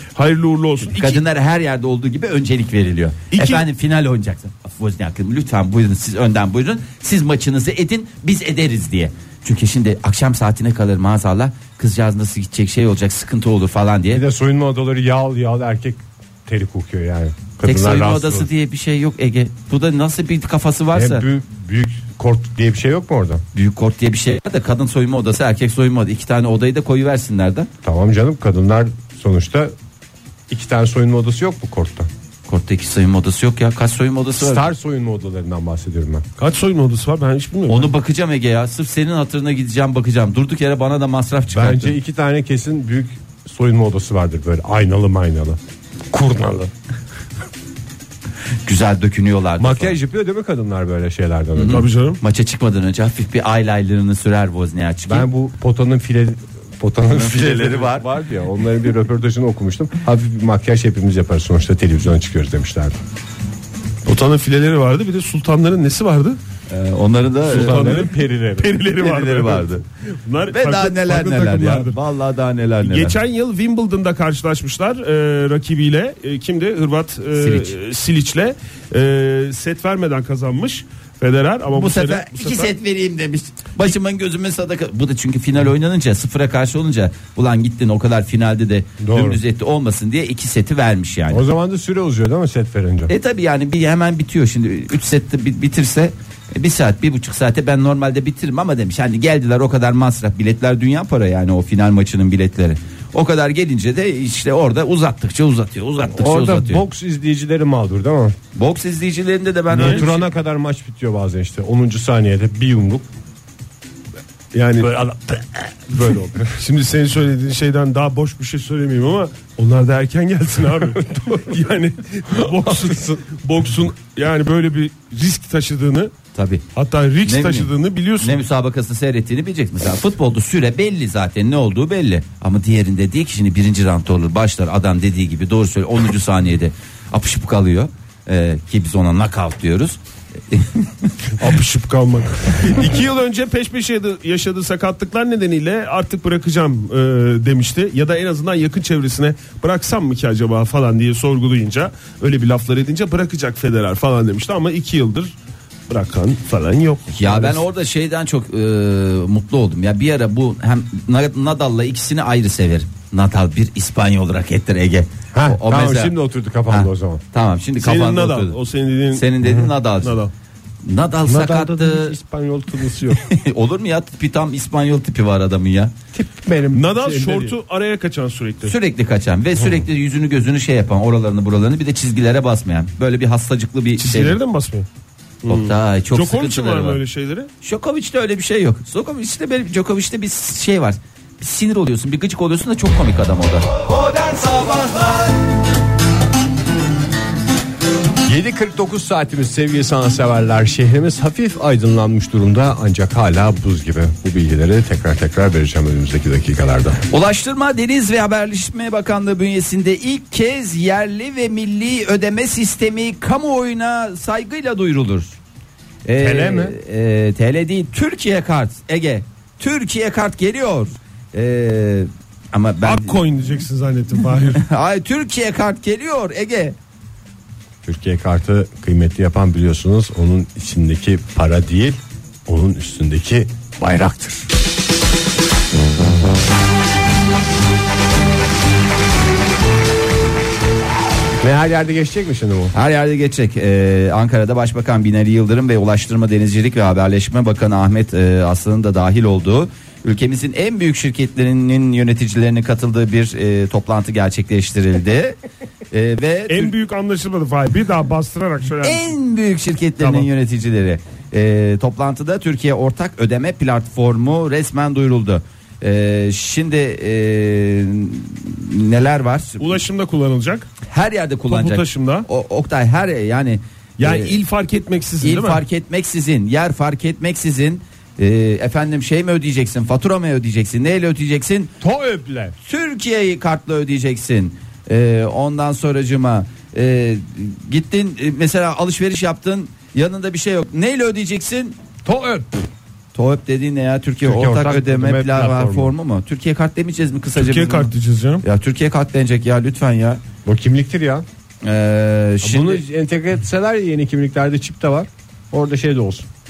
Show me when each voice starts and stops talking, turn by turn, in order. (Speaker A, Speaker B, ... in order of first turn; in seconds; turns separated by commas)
Speaker A: 0.2-1.2, Speaker B: 0.9-14.2, Speaker A: 3.3-3.6, Speaker C: 14.1-18.5, Speaker B: 17.6-21.2, Speaker C: 20.9-23.4, Speaker B: 23.5-27.7, Speaker C: 27.8-29.7, Speaker C: 30.5-32.1, Speaker B: 32.5-34.6, Speaker C: 34.4-36.2, Speaker A: 36.4-37.9, Speaker B: 37.7-42.0, Speaker C: 41.5-45.6, Speaker C: 46.1-46.7, Speaker B: 48.6-50.0, Speaker C: 49.6-51.9, Speaker B: 51.5-55.3, Speaker A: 51.7-52.2, Speaker C: 55.1-63.0, Speaker B: 57.1-58.1, Speaker A: 64.0-66.4, Speaker B: 66.7-68.0, Speaker A: 67.5-72.0, Speaker C: 67.5-68.8, Speaker B: 69.0-69.8, Speaker B: 70.5-73.2, Speaker A: 72.8-82.7, Speaker B: 77.4-77.8, Speaker B: 81.7-91.4, Speaker C: 89.0-89.4, Speaker C: 91.3-93.1, Speaker B: 93.1-106.8, Speaker C: 106.1-108.4, Speaker B: 108.5-110.2, Speaker C: 109.7-113.1, Speaker A: 109.7-110.0, Speaker A: 114.5-114.9, Speaker C: 114.8-116.6, Speaker A: 116.0-126.1, Speaker C: 122.3-123.3, Speaker B: 126.3-126.6, Speaker A: 126.8-128.4, Speaker B: 127.2-140.0, Speaker B: 140.5-141.1, Speaker A: 141.4-155.3, Speaker A: 155.9-157.1, Speaker B: 157.1-166.2, Speaker C: 157.3-157.6, Speaker C: 165.3-167.2, Speaker B: 166.7-168.6, Speaker A: 167.8-170.3, Speaker B: 169.1-170.2, Speaker B: 170.8-172.1, Speaker C: 171.3-173.2, Speaker B: 173.1-175.9, Speaker C: 176.1-177.5, Speaker A: 176.7-178.8, Speaker B: 178.6-184.4, Speaker A: 184.0-184.9, Speaker A: 185.4-187.5, Speaker B: 185.5-187.0, Speaker B: 187.6-195.3, Speaker C: 198.2-207.0, Speaker B: 207.1-215.4, Speaker B: 216.1-223.3, Speaker C: 216.2-216.7, Speaker A: 222.8-224.6, Speaker B: 224.6-226.8, Speaker C: 227.8-234.5, Speaker C: 241.4-242.7, Speaker B: 242.7-255.4, Speaker B: 255.9-256.7, Speaker A: 256.5-259.1, Speaker B: 258.8-269.8, Speaker A: 260.0-260.3, Speaker A: 269.6-270.7, Speaker B: 270.9-274.4, Speaker A: 271.5-272.3, Speaker A: 274.0-275.6, Speaker B: 275.2-281.7, Speaker C: 281.8-282.6, Speaker B: 282.6-291.8, Speaker C: 292.1-292.5, Speaker B: 293.1-297.9, Speaker C: 294.2-295.9, Speaker A: 297.4-298.4, Speaker B: 298.4-300.2, Speaker C: 300.5-301.2, Speaker B: 301.6-302.8, Speaker C: 302.4-306.3